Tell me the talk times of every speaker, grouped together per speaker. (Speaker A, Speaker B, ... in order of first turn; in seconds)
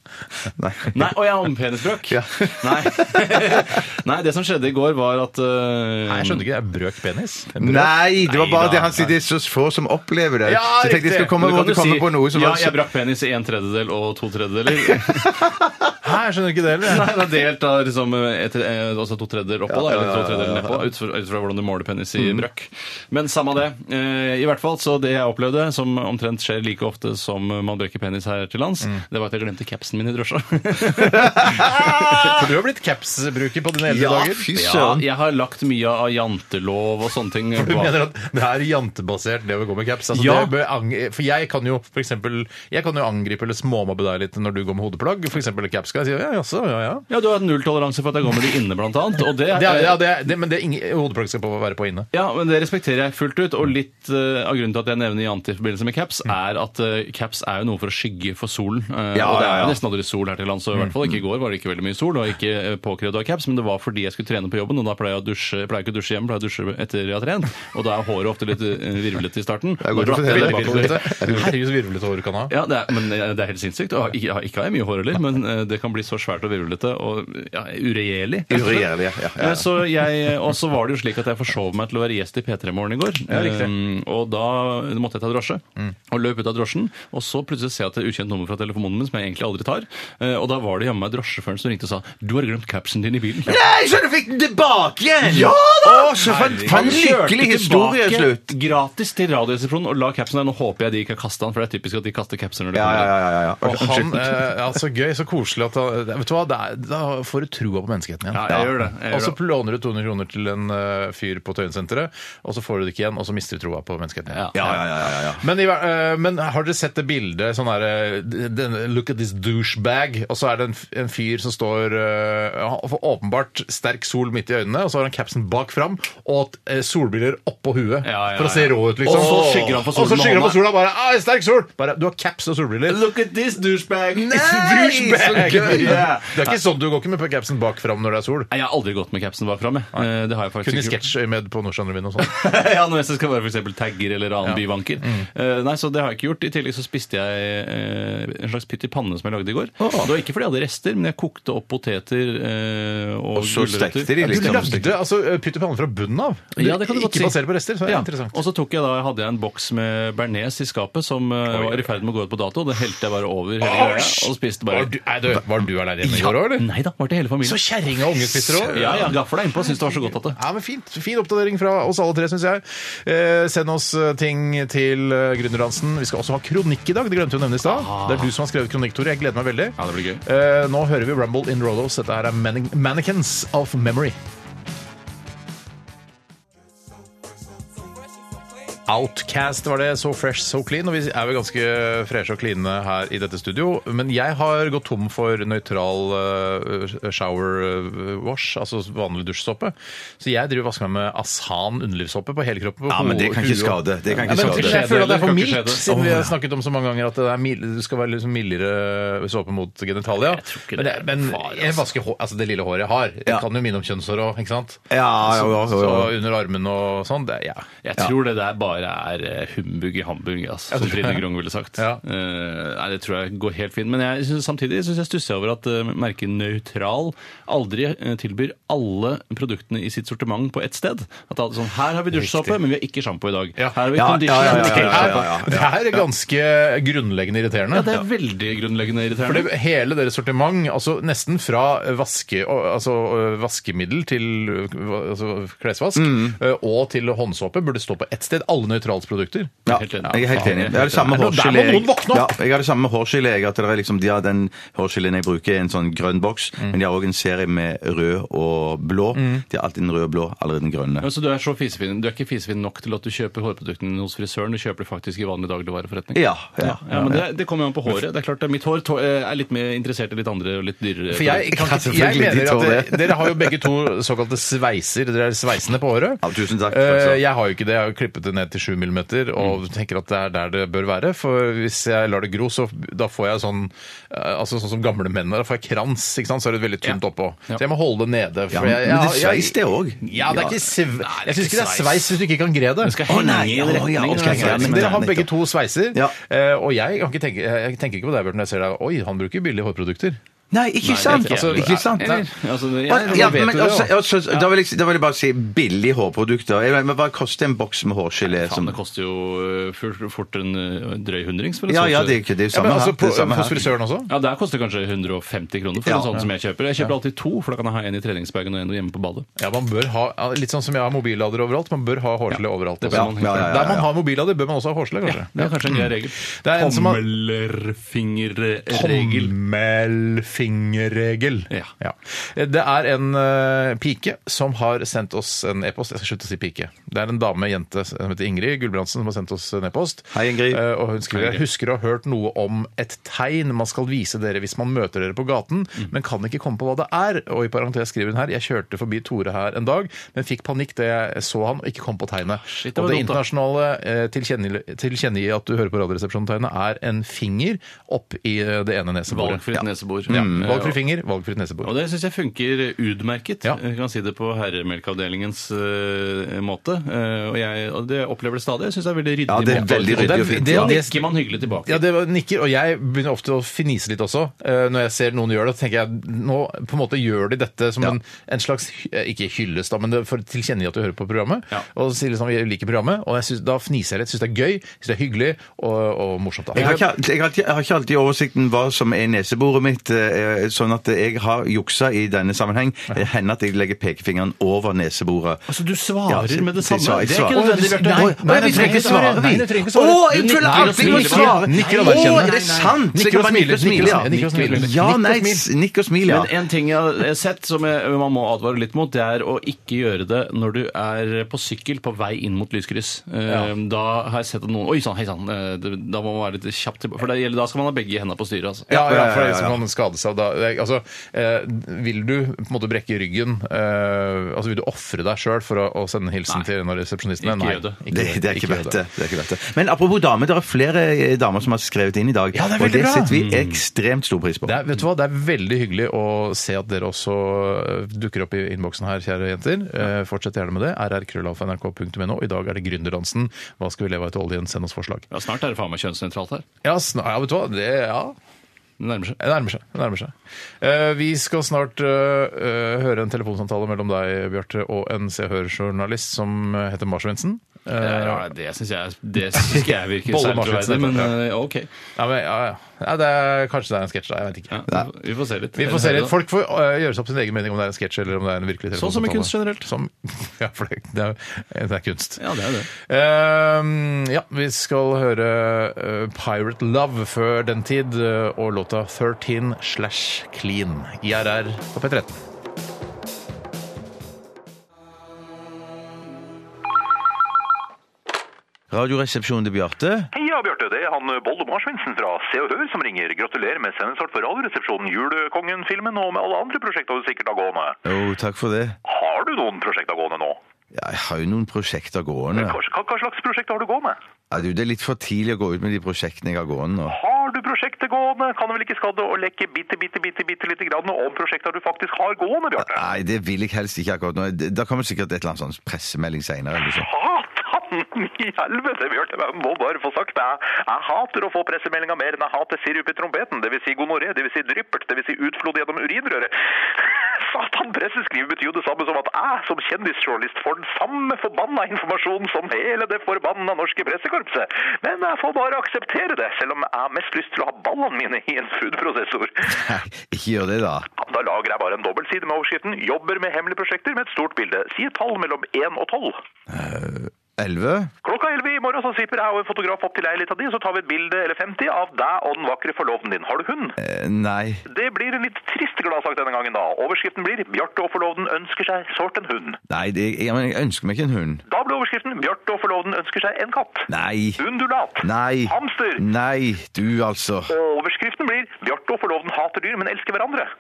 Speaker A: 0.5-1.2, 2.1-3.8, 7.6-12.8, 14.8-15.5, 19.7-20.8, 22.2-22.4, 33.9-35.1, 59.1-59.8, 69.8-71.5, 78.5-79.9, 93.5-98.4, 102.7-104.5, 114.5-115.4, 129.1-129.8, 134.1-136.2, 149.8-150.1, 153.3-155.0, 202.9-204.9, 205.9-206.3, 214.9-216.2, 233.9-236.0, 245.9-246.4, 249.7-261.1, 266.1-267.2, 271.5-273.6, 276.2-277.2, 288.5-290.5, 293.1-295.3, 300.5-302.3, 302.9-308.8, 311.7-313.7, 315.8-316.2, 322.9-323.9, 340.1-340.6, 359.5-360.6, 369.3-370.8, 386.5-395.4, 396.1-406.3, 418.7-419.6, 427.9-434.6, 488.7-490.1, 497.9-498.8, 500.7-502.6, 504.3-507.0, 512.6-516.9, 539.5-540.9, 546.5-547.9, 553.8-554.6, 559.7-561.4, 563.9-564.4, 565.0-567.5
Speaker B: 0.9-6.5, 8.3-9.0, 11.4-15.4, 16.8-31.9, 34.5-38.0, 40.1-40.5, 47.1-50.0, 52.1-71.5, 72.5-93.6, 95.2-103.1, 108.3-109.4, 114.3-114.6, 128.0-130.7, 132.9-136.6, 138.5-141.0, 142.2-154.7, 156.6-165.0, 166.1-167.6, 168.2-170.4, 177.6-178.3, 179.8-180.2, 204.2-206.2, 210.1-211.9, 217.8-235.3, 237.7-239.5, 249.7-251.1, 261.0-271.6, 286.8-287.6, 290.8-292.2, 292.8-295.1, 300.8-303.6, 308.3-312.2, 314.1-319.3, 322.8-323.7, 325.1-329.3, 341.1-341.4, 352.5-353.2, 359.1-360.8, 361.6-371.8, 395.5-399.3, 400.1-402.8, 403.8-404.7, 406.1-418.7, 427.2-427.8, 433.1-433.6, 445.1-446.4, 448.8-449.2, 457.8-461.7, 464.5-466.1, 468.8-469.7, 472.2-472.7
Speaker C: 6.1-8.0, 10.5-11.4, 16.0-17.1, 31.4-34.5, 37.6-47.0, 49.5-52.1, 70.3-72.5, 83.3-83.7, 95.8-97.0, 103.6-133.0, 135.0-138.5, 140.6-142.3, 144.4-145.3, 154.2-158.4, 161.5-161.9, 163.6-166.7, 167.4-169.2, 170.3-184.2, 188.9-217.7, 220.7-221.2, 232.1-232.6, 233.6-237.9, 239.2-252.3, 259.1-259.4, 271.1-293.0, 294.2-300.2, 301.1-302.3, 302.9-303.9, 312.5-314.1, 319.4-327.0, 328.7-359.4, 360.1-361.7, 369.5-386.8, 397.3-402.4, 402.9-405.4, 418.7-428.8, 432.3-433.1, 434.5-445.0, 446.6-448.1, 449.2-458.3, 460.1-461.2, 462.0-464.6, 465.6-472.2, 472.8-482.2
Speaker D: 490.1-497.8, 498.9-500.4, 502.3-504.0, 506.9-512.9, 516.7-539.5, 541.0-546.2, 548.0-553.8, 554.7-559.6, 561.5-566.0, 567.5-570.5